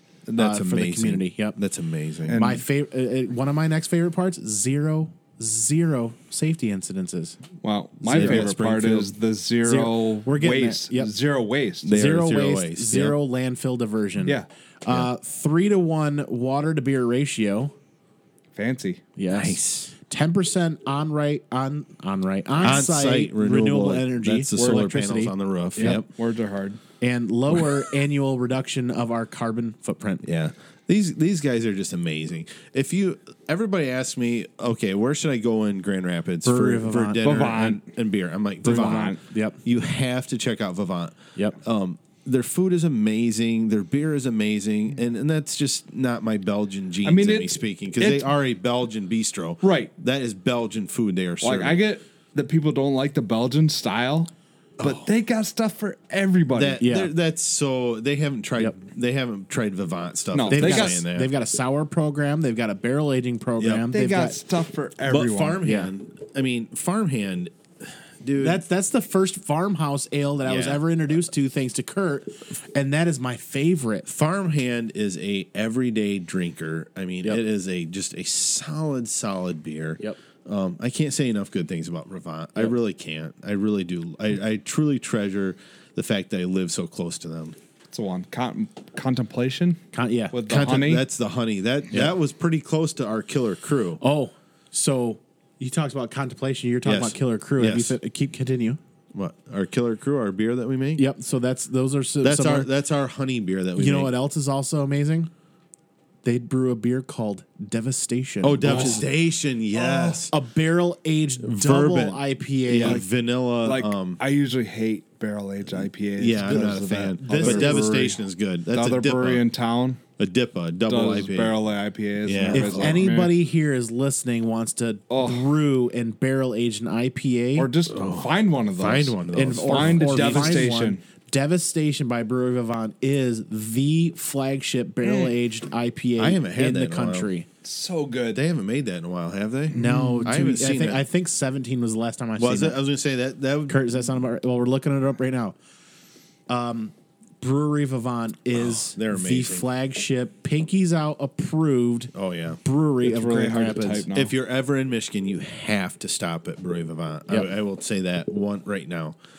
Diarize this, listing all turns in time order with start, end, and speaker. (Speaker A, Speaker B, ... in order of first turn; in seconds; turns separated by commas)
Speaker A: 0.3-2.4, Speaker B: 0.4-1.6, Speaker C: 2.3-2.6, Speaker B: 2.3-7.4, Speaker C: 7.6-11.9, Speaker B: 8.0-8.5, Speaker A: 8.1-9.1, Speaker B: 9.6-11.1, Speaker A: 11.8-13.2, Speaker B: 11.9-17.7, Speaker C: 18.5-19.0, Speaker B: 19.2-26.0, Speaker A: 19.3-19.9, Speaker A: 22.6-26.1, Speaker C: 24.6-24.9, Speaker C: 25.8-26.8, Speaker B: 27.0-30.2, Speaker A: 30.2-51.8, Speaker B: 36.4-37.3, Speaker C: 37.2-37.9, Speaker C: 38.6-39.2, Speaker B: 38.7-39.6, Speaker C: 47.0-48.3, Speaker C: 49.6-49.9, Speaker C: 51.4-56.8, Speaker A: 54.8-55.1, Speaker A: 56.5-61.3, Speaker B: 56.8-57.1, Speaker C: 60.3-61.0, Speaker B: 60.5-64.4, Speaker A: 63.6-63.9, Speaker C: 63.9-65.6, Speaker A: 65.0-68.6, Speaker B: 65.6-65.9, Speaker B: 68.4-74.1, Speaker A: 70.5-70.8, Speaker A: 74.1-87.5, Speaker C: 87.9-89.8, Speaker B: 89.9-90.4, Speaker C: 90.3-91.1, Speaker A: 90.5-94.0, Speaker B: 94.0-98.8, Speaker A: 96.8-98.0, Speaker A: 99.1-101.0, Speaker B: 101.0-102.7, Speaker A: 102.2-104.1, Speaker B: 103.8-105.3, Speaker B: 106.2-109.1, Speaker A: 108.4-110.3, Speaker C: 108.6-109.0, Speaker C: 109.8-110.1, Speaker B: 110.2-113.1, Speaker A: 111.4-114.2, Speaker C: 112.7-113.0, Speaker C: 113.6-120.0, Speaker A: 116.2-119.4, Speaker B: 116.4-118.1, Speaker A: 120.2-121.6, Speaker C: 120.9-123.4, Speaker A: 122.2-123.1, Speaker B: 122.5-127.7, Speaker C: 125.1-125.5, Speaker C: 127.6-131.0, Speaker A: 127.9-130.7, Speaker B: 129.3-137.5, Speaker C: 135.0-135.3, Speaker A: 136.2-137.3, Speaker C: 137.6-138.4, Speaker A: 138.3-141.1, Speaker C: 139.7-140.5, Speaker B: 139.7-142.8, Speaker A: 142.4-143.8, Speaker B: 143.7-145.6, Speaker B: 146.5-152.1, Speaker A: 148.7-149.7, Speaker A: 152.1-152.6, Speaker B: 152.6-154.1, Speaker C: 153.0-154.3, Speaker A: 154.1-159.2